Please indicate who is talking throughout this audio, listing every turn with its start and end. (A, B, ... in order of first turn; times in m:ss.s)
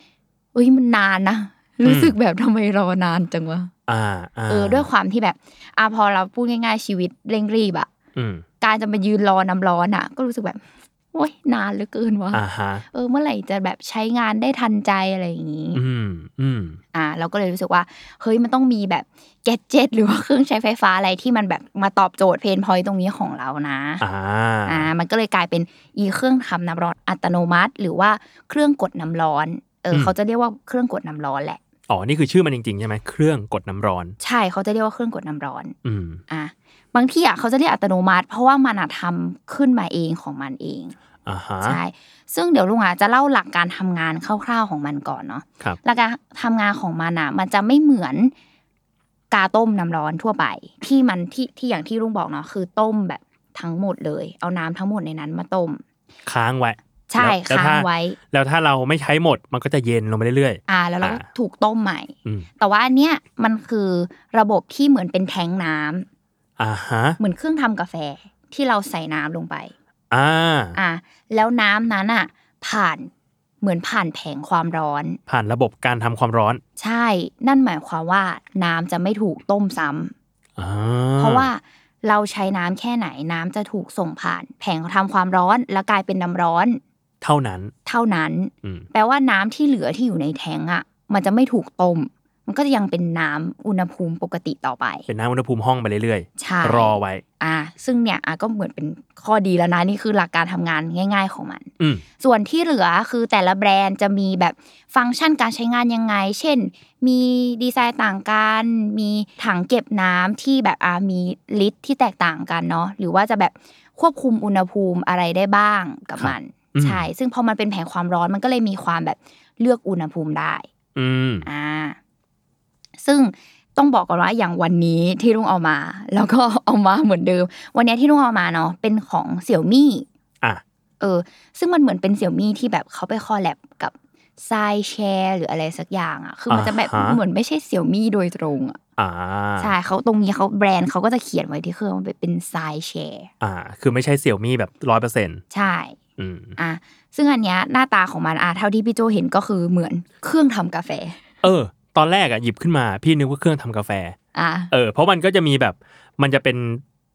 0:00.5-0:03.7 A
0:01.8-0:02.1 B
0:03.9-0:04.9 B
0:04.5-0:07.9 A
0:08.1-0:08.4 B
0:08.6-0:15.8 A
0:12.3-0:12.8 B
0:15.7-0:16.8 B
0:16.9-0:24.0 A
0:24.0-0:24.9 B
0:24.6-0:31.6 A
0:31.9-0:34.2 B
0:34.2-0:35.7 A
0:35.8-0:36.2 B
0:36.3-0:40.9 A
0:41.2-0:41.8 B
0:41.6-0:48.3 A
0:49.3-0:55.8 A
0:56.2-1:01.2 B
0:57.1-0:58.2 A
1:00.7-1:06.0 A
1:06.6-1:07.2 B
1:07.2-1:09.7 A
1:10.1-1:10.8 B
1:10.8-1:15.2 A
1:15.3-1:16.6 B
1:16.8-1:20.1 A
1:20.6-1:21.5 B
1:21.2-1:26.8 A
1:27.2-1:27.7 B
1:27.8-1:35.1 A
1:35.1-1:37.2 B
1:36.4-2:00.7 A
1:56.2-1:57.1 B
2:00.9-2:01.5 B
2:01.4-2:02.0 A
2:03.0-2:10.1 A
2:11.0-2:18.8 A
2:16.5-2:17.2 B
2:19.0-2:19.7 B
2:19.6-2:23.3 A
2:23.4-2:25.4 B
2:25.5-2:26.0 A
2:26.2-2:26.5 B
2:26.6-2:31.2 A
2:31.4-2:34.2 B
2:34.3-2:34.7 A
2:34.7-2:36.8 B